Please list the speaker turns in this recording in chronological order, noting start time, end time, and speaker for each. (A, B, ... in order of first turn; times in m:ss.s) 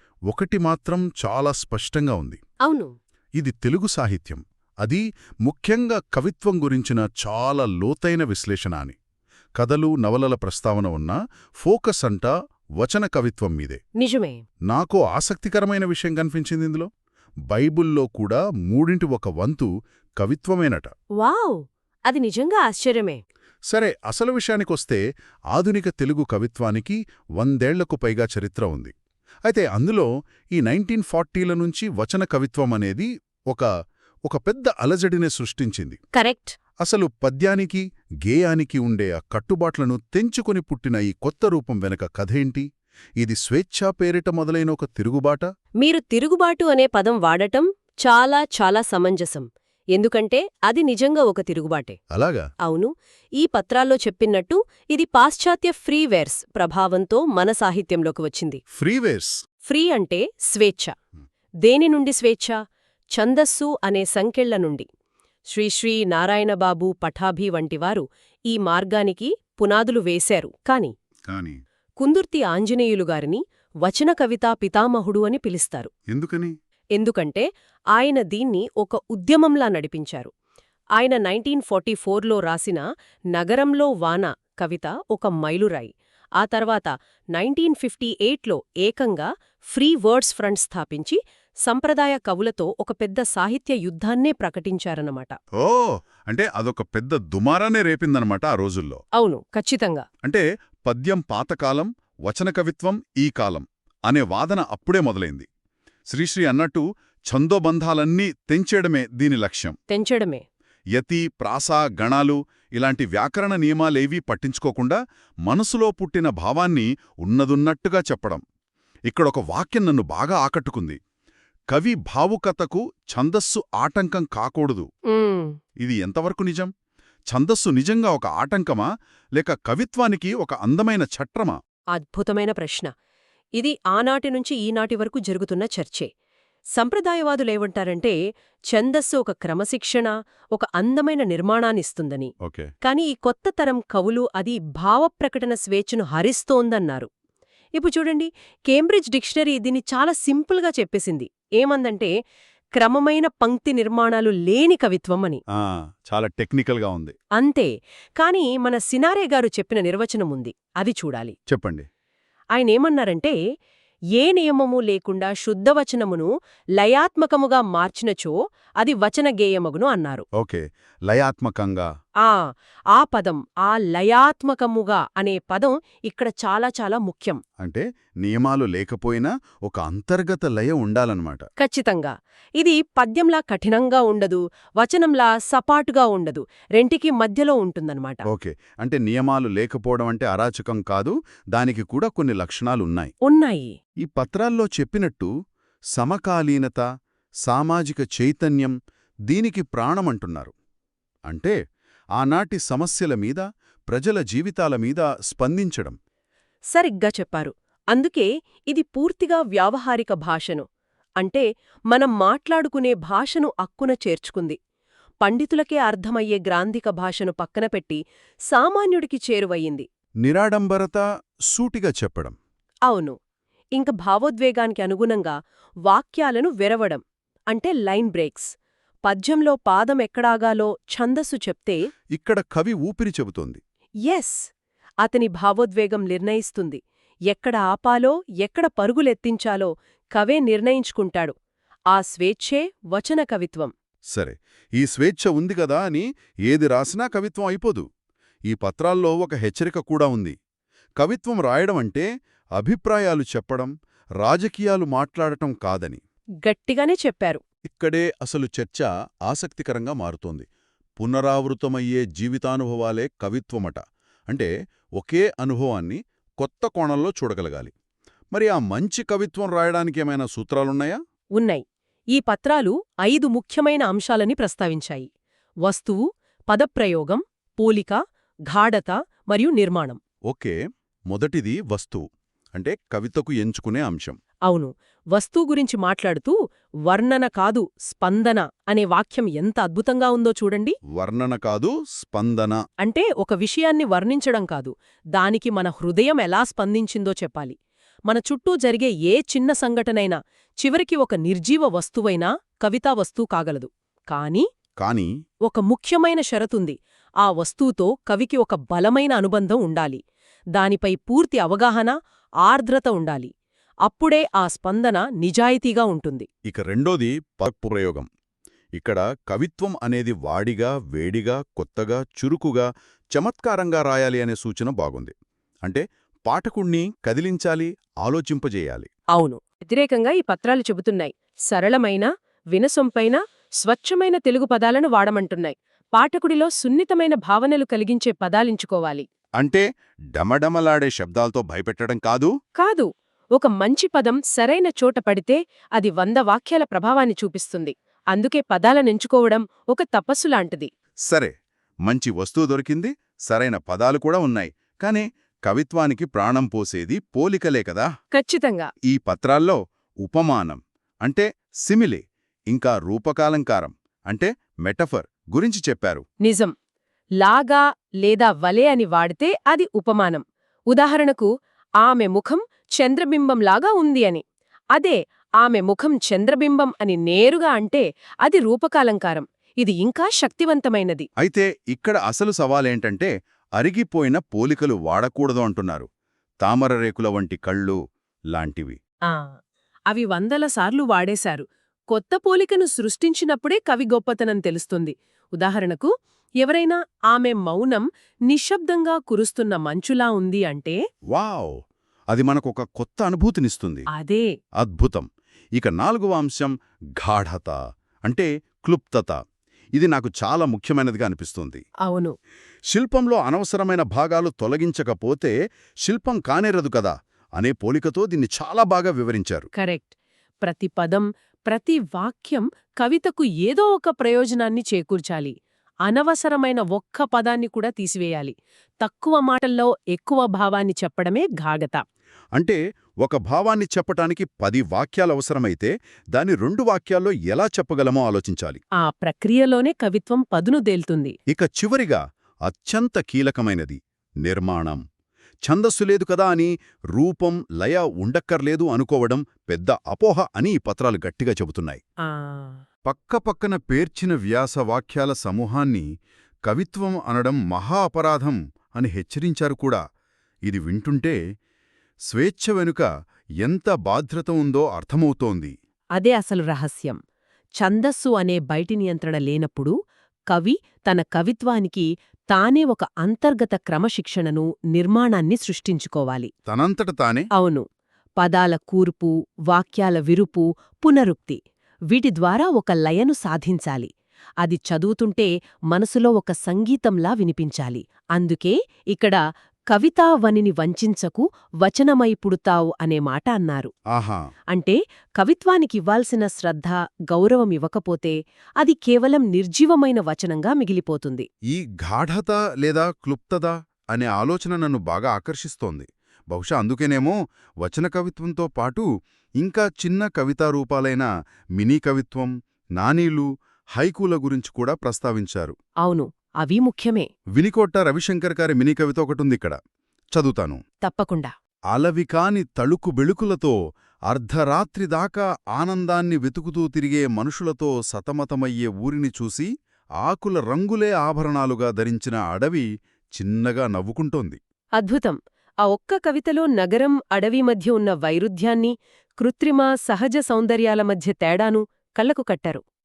0:00.3-0:02.4 A
0:02.6-0:02.9 B
0:03.4-0:09.0 A
0:09.6-0:13.8 A
0:14.0-0:14.4 B
0:14.7-0:16.9 A
0:17.5-0:20.9 A
0:21.2-0:23.2 B
0:23.7-0:25.0 A
0:25.5-0:28.9 A
0:29.5-0:33.7 A
0:34.3-0:36.0 A
0:36.2-0:36.6 B
0:36.8-0:42.7 A
0:43.2-0:45.5 A
0:45.8-0:52.0 B
0:52.1-0:52.5 A
0:52.6-0:58.6 B
0:58.8-0:59.4 A
0:59.7-1:00.9 B
1:01.6-1:02.6 B
1:03.2-1:04.9 B
1:05.5-1:10.9 B
1:11.3-1:11.6 A
1:12.0-1:15.9 B
1:16.1-1:16.5 A
1:17.0-1:20.3 B
1:21.0-1:35.4 B
1:35.6-1:39.0 A
1:39.2-1:40.1 B
1:40.2-1:45.5 A
1:46.1-1:49.8 A
1:49.9-1:50.4 B
1:51.0-1:58.4 A
1:59.1-2:01.0 A
2:01.7-2:04.9 A
2:05.1-2:05.6 B
2:05.8-2:06.7 A
2:07.3-2:11.6 A
2:12.0-2:12.9 B
2:13.6-2:16.1 B
2:16.8-2:18.2 B
2:18.7-2:22.3 B
2:22.4-2:22.7 A
2:22.8-2:27.1 B
2:27.8-2:32.1 B
2:32.8-2:35.4 B
2:35.6-2:37.2 A
2:37.4-2:41.4 B
2:41.5-2:41.9 A
2:42.6-2:43.4 B
2:44.2-2:50.3 B
2:50.4-2:51.9 A
2:52.2-2:57.4 B
2:57.6-3:01.5 A
3:01.6-3:08.2 B
3:08.3-3:13.1 A
3:13.2-3:13.7 B
3:14.0-3:15.3 A
3:16.0-3:16.8 A
3:17.5-3:18.8 A
3:19.3-3:20.5 A
3:21.3-3:21.6 A
3:22.2-3:26.0 A
3:26.7-3:30.7 B
3:31.2-3:34.6 B
3:35.2-3:39.9 B
3:40.2-3:42.4 A
3:42.9-3:43.2 B
3:43.8-3:45.4 B
3:45.9-3:48.5 B
3:49.1-3:51.8 B
3:52.2-3:53.6 A
3:54.1-3:54.4 B
3:55.0-4:01.3 B
4:01.9-4:03.7 B
4:04.2-4:07.9 A
4:08.5-4:10.4 A
4:11.0-4:12.0 A
4:12.6-4:16.0 A
4:16.4-4:17.4 B
4:17.6-4:20.5 A
4:21.0-4:27.7 A
4:28.3-4:31.0 A
4:31.4-4:31.6 B
4:32.1-4:35.1 B
4:35.7-4:40.0 B
4:40.3-4:40.6 A
4:41.1-4:44.2 A
4:44.5-4:46.4 B
4:46.9-4:50.8 B
4:50.9-4:52.6 A
4:52.8-4:57.6 B
4:58.1-5:04.4 B
5:04.8-5:05.1 A
5:05.5-5:10.0 B
5:10.6-5:13.3 B
5:13.9-5:16.3 B
5:16.5-5:18.1 A
5:18.8-5:25.1 A
5:25.6-5:28.9 A
5:29.1-5:39.1 B
5:39.4-5:42.3 A
5:42.6-5:50.7 B
5:51.1-5:51.3 A
5:51.9-5:57.9 A
5:58.1-5:58.7 B
5:58.9-6:06.0 A
6:06.2-6:06.5 B
6:07.2-6:11.3 B
6:11.8-6:14.2 B
6:14.8-6:21.1 B
6:21.2-6:25.9 A
6:26.4-6:27.8 A
6:28.4-6:28.8 A
6:29.1-6:29.4 B
6:29.9-6:35.9 B
6:36.4-6:40.8 B
6:41.1-6:41.5 A
6:42.1-6:43.9 A
6:43.9-6:44.3 B
6:44.6-6:47.6 A
6:48.1-6:49.2 A
6:49.8-6:51.6 A
6:51.8-6:52.2 B
6:52.7-6:55.3 A
6:55.9-6:59.5 A
6:59.6-7:05.4 B
7:05.9-7:11.8 B
7:12.4-7:18.6 A
7:18.8-7:21.2 B
7:21.3-7:24.8 A
7:25.5-7:31.8 A
7:32.0-7:32.6 B
7:32.9-7:35.8 A
7:36.5-7:39.8 A
7:40.5-7:41.2 A
7:42.1-7:42.9 A
7:43.4-7:45.5 A
7:46.0-7:47.0 B
7:47.6-7:49.7 B
7:50.3-7:56.3 B
7:56.5-7:57.3 A
7:57.3-7:57.7 B
7:58.2-8:01.4 B
8:01.9-8:03.9 B
8:04.4-8:09.2 B
8:09.7-8:13.7 B
8:13.9-8:14.2 A
8:14.5-8:21.3 B
8:21.5-8:28.9 A
8:29.4-8:35.6 A
8:35.8-8:37.1 B
8:37.4-8:39.6 A
8:40.2-8:40.6 A
8:40.8-8:41.3 B
8:41.7-8:43.6 A
8:44.1-8:49.5 A
8:50.0-8:54.4 A
8:54.8-9:02.6 B